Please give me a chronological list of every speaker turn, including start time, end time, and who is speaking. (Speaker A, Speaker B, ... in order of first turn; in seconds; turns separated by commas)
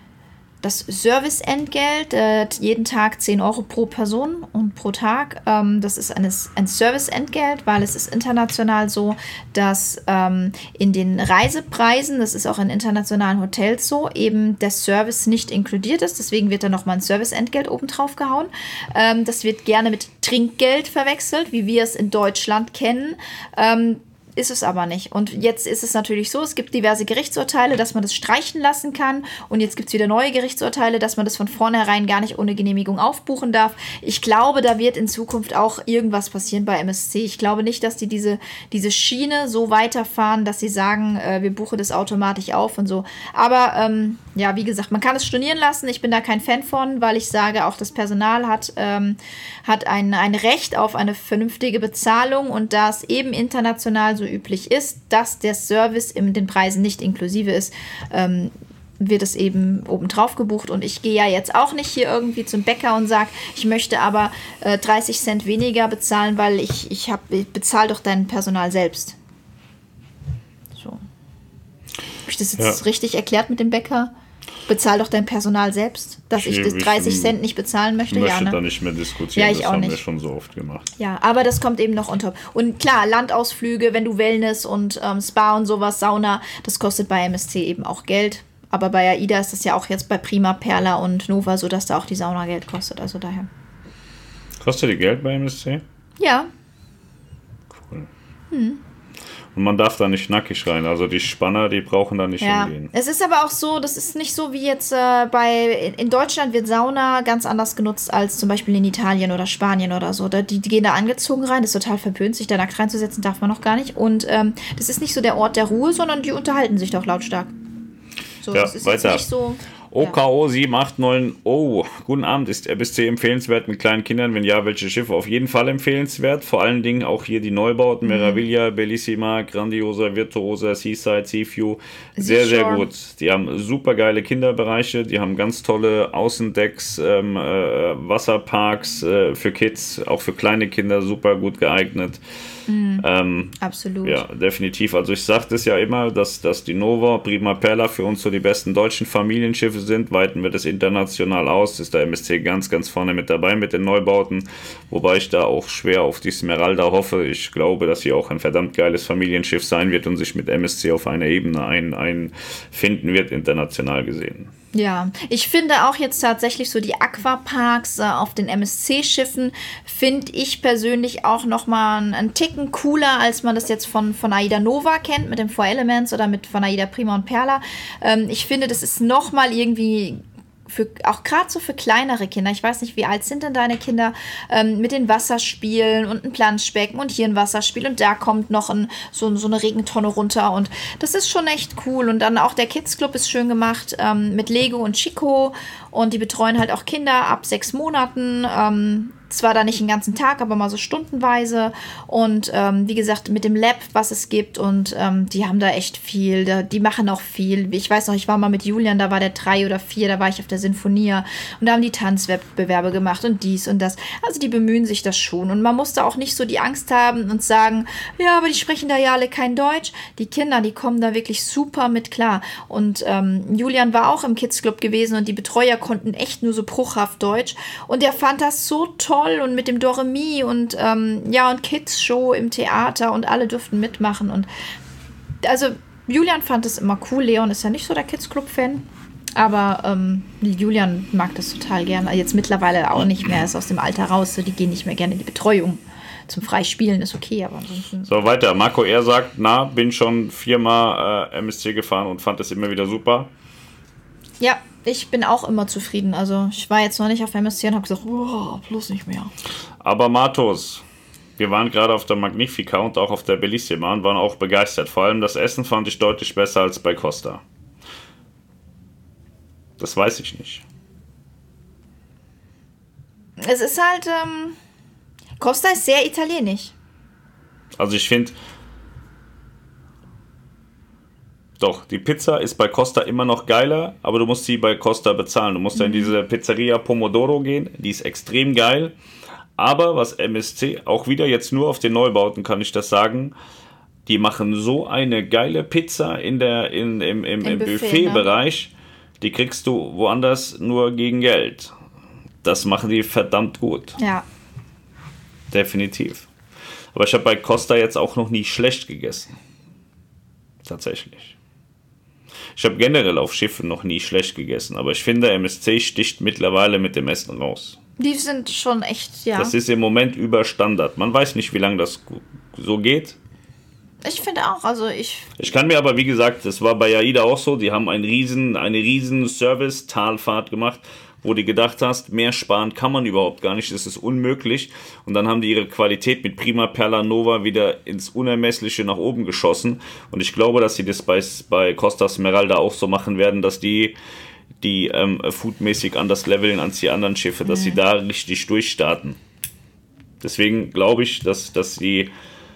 Speaker A: 0.6-69.2, Speaker A: 70.7-71.0, Speaker A: 72.2-74.1, Speaker A: 74.7-78.6, Speaker B: 76.3-77.4, Speaker B: 78.1-80.9, Speaker A: 79.3-80.0, Speaker A: 81.0-93.5, Speaker B: 94.6-95.8, Speaker A: 96.2-96.5, Speaker B: 97.7-98.1, Speaker A: 98.5-98.8, Speaker B: 99.5-102.9, Speaker A: 102.4-117.5, Speaker A: 118.4-120.1, Speaker B: 118.5-119.2, Speaker B: 119.9-142.2, Speaker A: 128.0-128.4, Speaker A: 132.2-132.9, Speaker A: 142.7-143.1, Speaker B: 143.0-164.5, Speaker A: 143.6-144.2, Speaker A: 164.7-234.5, Speaker A: 235.4-248.2, Speaker B: 248.1-253.3, Speaker A: 254.4-259.3, Speaker B: 259.8-260.8, Speaker B: 261.4-267.4, Speaker B: 269.8-270.6, Speaker A: 273.4-274.6, Speaker A: 275.4-276.7, Speaker B: 277.8-278.4, Speaker B: 281.6-288.9, Speaker A: 285.7-286.1, Speaker B: 289.6-293.3, Speaker B: 294.1-301.7, Speaker A: 297.4-298.3, Speaker B: 302.4-304.0, Speaker A: 304.0-304.2, Speaker B: 305.5-306.3, Speaker B: 306.9-309.4, Speaker B: 310.6-311.4, Speaker B: 312.5-317.8, Speaker A: 318.0-319.5, Speaker B: 319.4-323.2, Speaker A: 324.0-325.3, Speaker B: 325.4-343.9, Speaker B: 344.6-349.2, Speaker A: 347.4-347.8, Speaker B: 350.2-352.1